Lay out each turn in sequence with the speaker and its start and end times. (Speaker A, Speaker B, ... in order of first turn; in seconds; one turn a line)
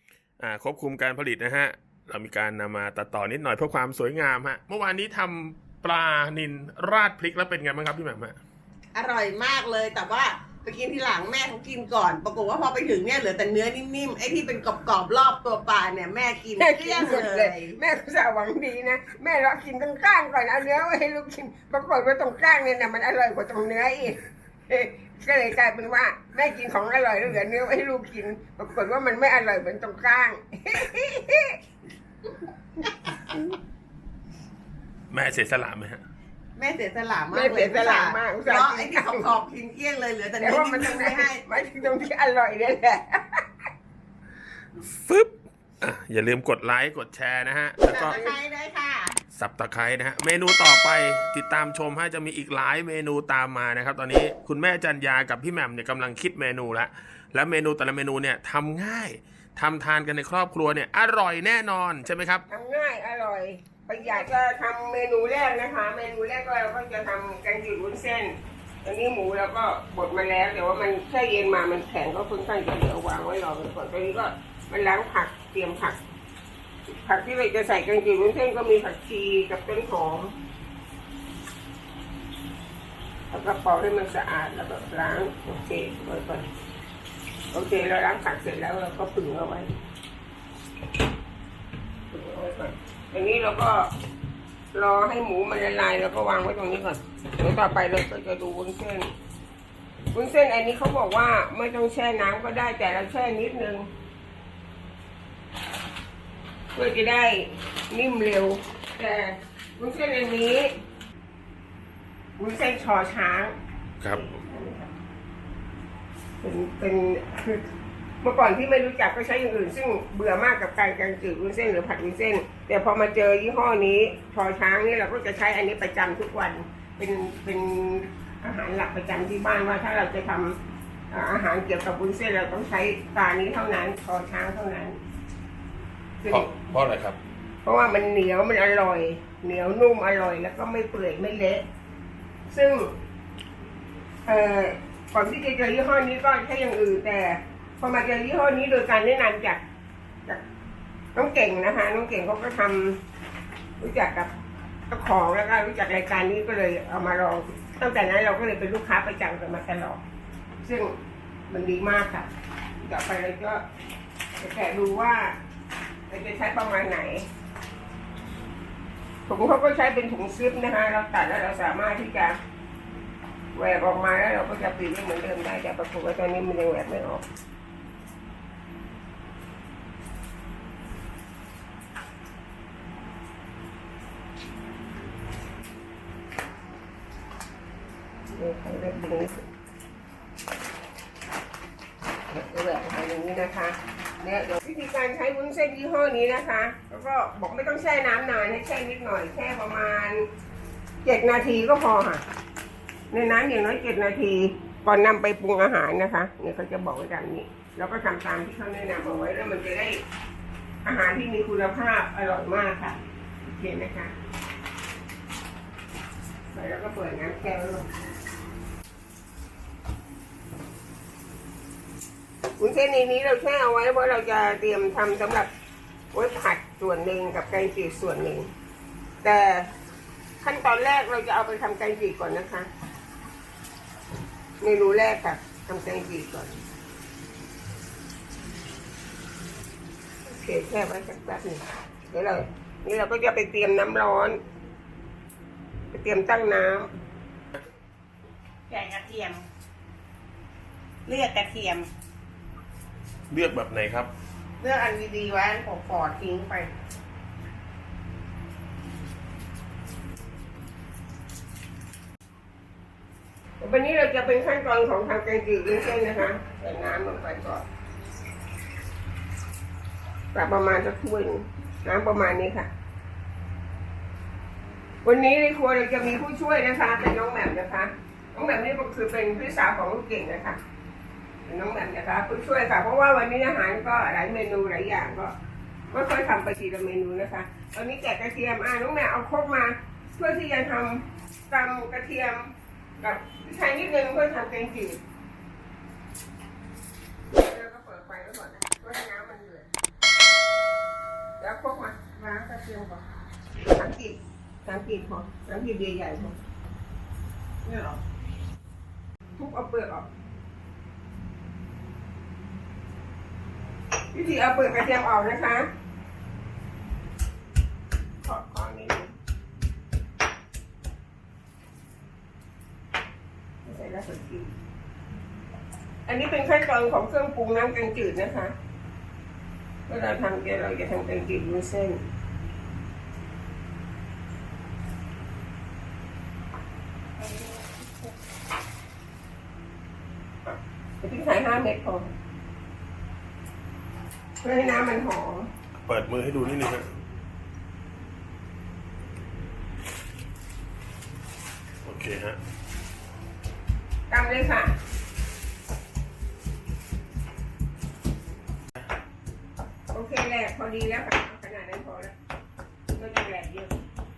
Speaker A: 0.4-8.4
Speaker B: 8.9-17.8
Speaker C: 16.6-31.6
Speaker C: 32.8-33.4
Speaker A: 35.1-36.0
Speaker B: 36.6-41.5
Speaker C: 37.3-39.3
Speaker C: 40.4-43.5
Speaker A: 44.8-48.2
Speaker B: 47.9-49.2
Speaker C: 48.1-48.4
Speaker A: 49.3-62.5
Speaker C: 62.5-76.0
Speaker C: 76.9-80.3
Speaker C: 83.3-86.5
Speaker C: 87.5-89.7
Speaker C: 92.1-93.9
Speaker C: 94.7-99.1
Speaker C: 100.1-103.9
Speaker C: 106.8-110.8
Speaker C: 112.4-113.5
Speaker A: 114.0-114.3
Speaker C: 114.1-114.9
Speaker C: 116.4-117.6
Speaker C: 118.2-130.6
Speaker C: 131.1-135.0
Speaker C: 136.2-136.5
Speaker A: 136.3-137.2
Speaker C: 137.6-141.7
Speaker C: 142.5-142.9
Speaker C: 144.3-149.6
Speaker C: 151.2-153.0
Speaker C: 153.8-154.3
Speaker C: 154.9-160.0
Speaker C: 160.6-160.9
Speaker C: 161.5-162.3
Speaker C: 162.8-163.6
Speaker C: 164.4-165.4
Speaker C: 166.1-167.3
Speaker C: 169.3-172.4
Speaker C: 173.5-177.2
Speaker C: 188.3-189.4
Speaker C: 192.3-200.3
Speaker C: 201.0-202.2
Speaker C: 203.1-210.0
Speaker C: 210.8-214.1
Speaker C: 216.5-217.8
Speaker C: 222.6-225.5
Speaker C: 226.1-228.5
Speaker C: 229.2-229.7
Speaker C: 230.4-232.7
Speaker C: 234.6-236.5
Speaker C: 240.3-244.4
Speaker C: 245.9-246.9
Speaker B: 248.7-249.5
Speaker B: 251.1-251.9
Speaker A: 253.3-254.1
Speaker B: 254.6-256.7
Speaker C: 263.6-267.6
Speaker C: 270.3-272.7
Speaker C: 275.0-280.6
Speaker C: 281.5-285.3
Speaker C: 285.9-295.0
Speaker C: 297.3-299.7
Speaker C: 301.4-302.0
Speaker B: 302.2-303.0
Speaker C: 303.7-306.4
Speaker B: 307.6-308.0
Speaker C: 309.4-310.1
Speaker C: 314.1-315.7
Speaker C: 318.2-319.1
Speaker C: 323.6-324.5
Speaker C: 326.1-328.6
Speaker C: 329.9-332.0
Speaker C: 337.2-337.6
Speaker C: 340.5-342.1
Speaker C: 344.4-345.5
Speaker A: 345.8-346.9
Speaker A: 351.8-352.4
Speaker C: 354.1-354.7
Speaker C: 359.9-362.1
Speaker C: 362.9-363.7